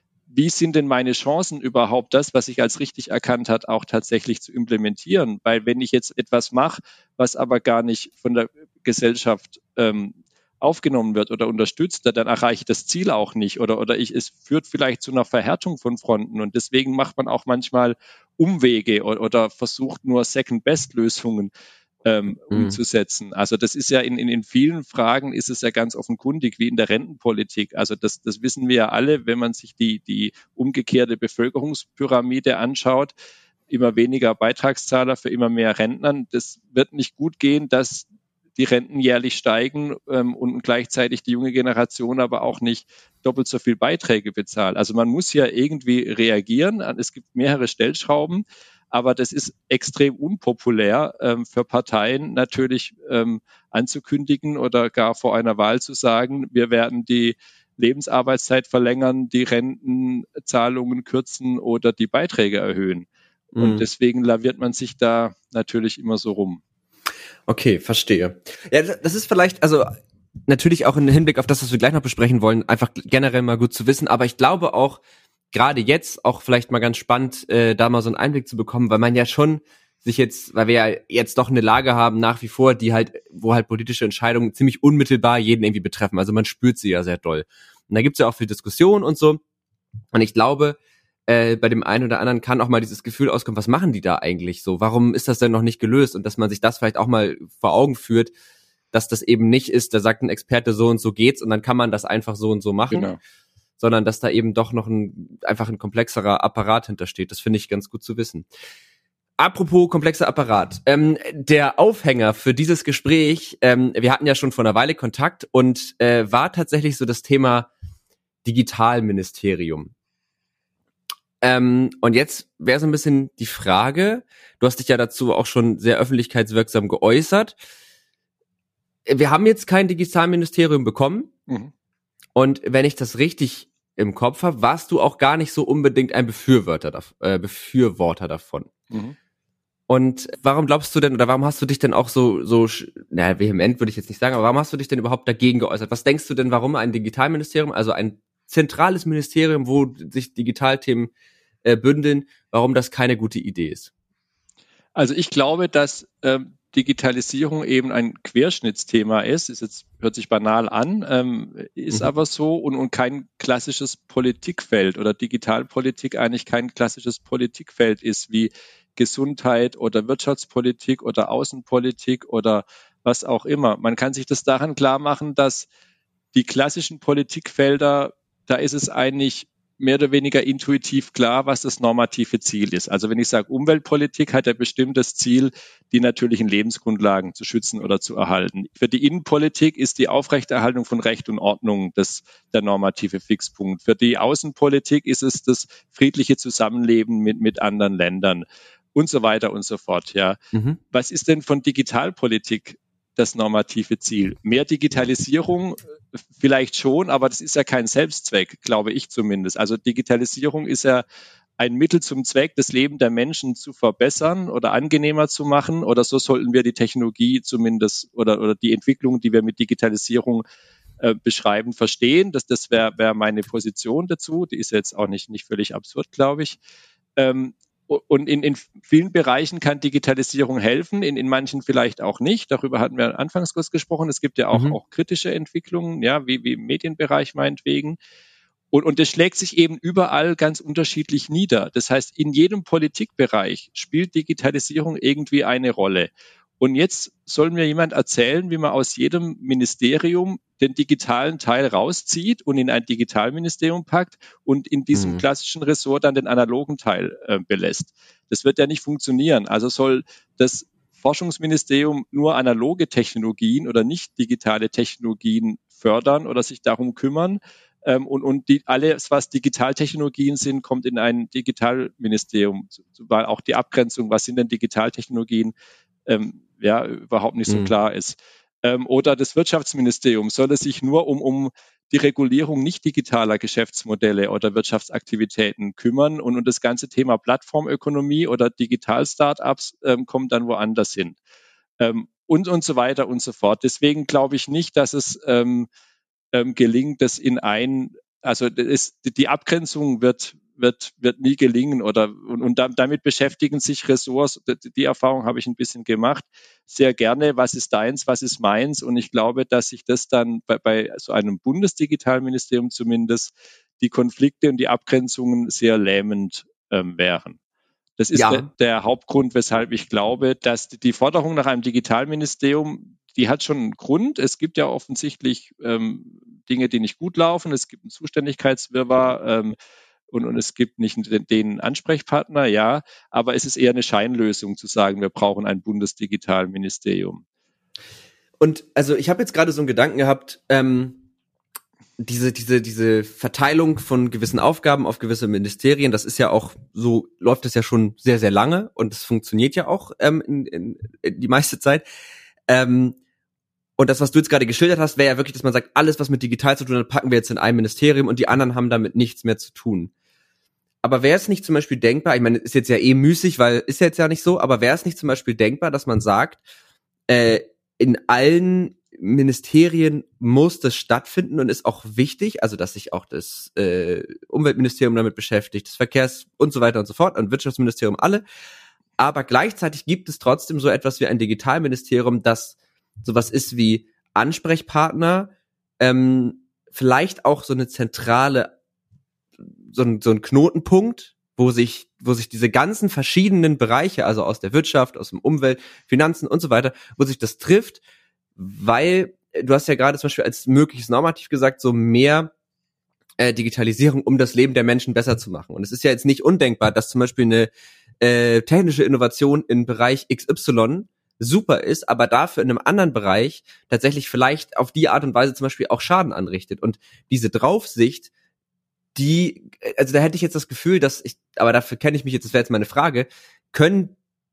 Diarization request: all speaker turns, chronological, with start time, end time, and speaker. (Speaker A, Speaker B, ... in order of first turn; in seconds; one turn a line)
Speaker A: 0.3-21.5
Speaker A: 22.0-33.1
Speaker B: 22.5-22.8
Speaker A: 33.7-66.6
Speaker B: 63.5-63.8
Speaker B: 67.5-69.9
Speaker B: 70.5-75.0
Speaker B: 75.5-89.4
Speaker B: 90.1-98.3
Speaker B: 98.9-103.1
Speaker A: 102.9-103.2
Speaker B: 103.8-108.5
Speaker B: 109.4-117.7
Speaker B: 118.4-119.9
Speaker B: 121.4-127.6
Speaker B: 129.1-131.3
Speaker B: 132.3-138.7
Speaker A: 138.9-139.2
Speaker B: 139.9-151.1
Speaker B: 151.6-153.9
Speaker A: 154.9-175.7
Speaker A: 176.3-200.4
Speaker A: 200.9-211.0
Speaker A: 211.6-220.4
Speaker A: 221.0-226.6
Speaker A: 227.2-238.0
Speaker A: 238.7-275.5
Speaker B: 254.9-255.2
Speaker A: 276.1-291.2
Speaker B: 277.5-277.7
Speaker A: 291.8-295.7
Speaker A: 296.3-317.4
Speaker A: 318.0-329.6
Speaker B: 318.1-318.4
Speaker A: 330.1-337.2
Speaker B: 338.4-341.0
Speaker B: 342.0-351.8
Speaker B: 352.5-353.0
Speaker B: 353.8-359.9
Speaker B: 360.8-366.4
Speaker B: 367.1-378.2
Speaker B: 379.0-388.5
Speaker B: 389.6-397.8
Speaker B: 398.4-402.3
Speaker B: 403.2-418.1
Speaker B: 418.9-423.9